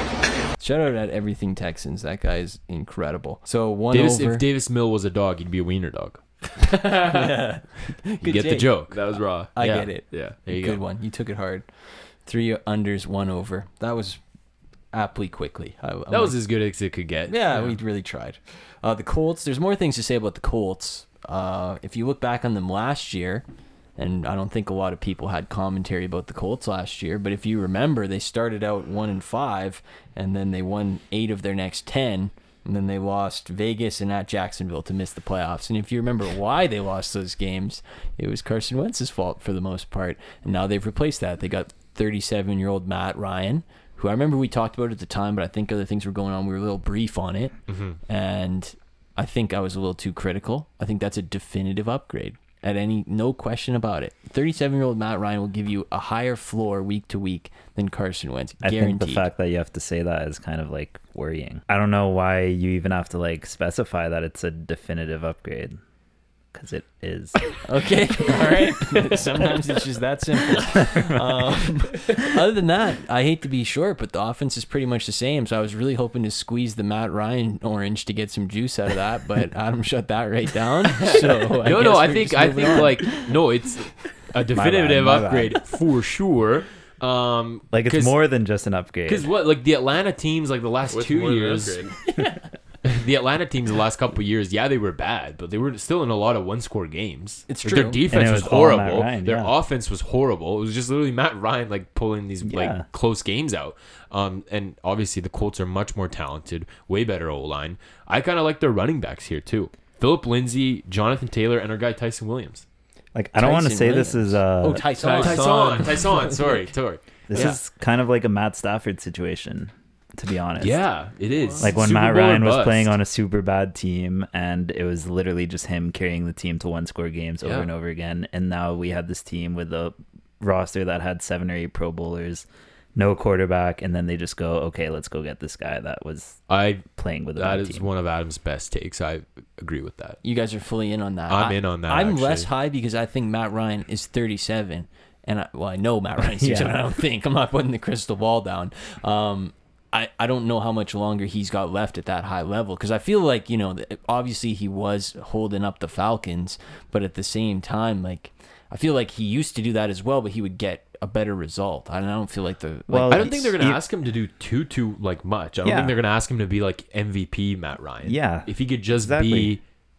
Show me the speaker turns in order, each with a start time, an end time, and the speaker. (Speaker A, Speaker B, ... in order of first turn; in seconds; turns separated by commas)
Speaker A: 0.6-4.5, Speaker B: 3.9-6.2, Speaker C: 6.7-7.2, Speaker A: 6.8-8.9, Speaker B: 8.2-9.0, Speaker C: 8.9-10.4, Speaker A: 9.6-11.7, Speaker B: 9.6-10.8, Speaker A: 12.2-14.2, Speaker A: 14.9-16.4, Speaker B: 16.1-17.4, Speaker A: 17.3-23.4, Speaker A: 24.0-59.3, Speaker B: 47.7-48.0, Speaker D: 58.6-65.8, Speaker D: 66.5-67.6, Speaker A: 67.6-83.2, Speaker D: 70.8-71.3, Speaker B: 81.0-88.2, Speaker D: 84.5-85.6, Speaker D: 87.7-89.3, Speaker B: 89.1-91.9, Speaker C: 90.9-92.0, Speaker B: 92.8-112.7, Speaker A: 97.5-98.0, Speaker D: 98.1-99.5, Speaker D: 102.4-102.8, Speaker D: 113.1-114.8, Speaker A: 113.4-116.0, Speaker C: 115.0-116.3, Speaker B: 115.0-117.6, Speaker D: 117.3-120.8, Speaker B: 120.6-123.0, Speaker D: 121.6-137.9, Speaker B: 127.4-127.7, Speaker B: 136.5-140.2, Speaker A: 140.2-163.5, Speaker B: 141.3-142.5, Speaker D: 146.4-146.8, Speaker D: 162.9-163.8, Speaker B: 163.1-169.6, Speaker D: 165.6-166.0, Speaker D: 168.0-169.6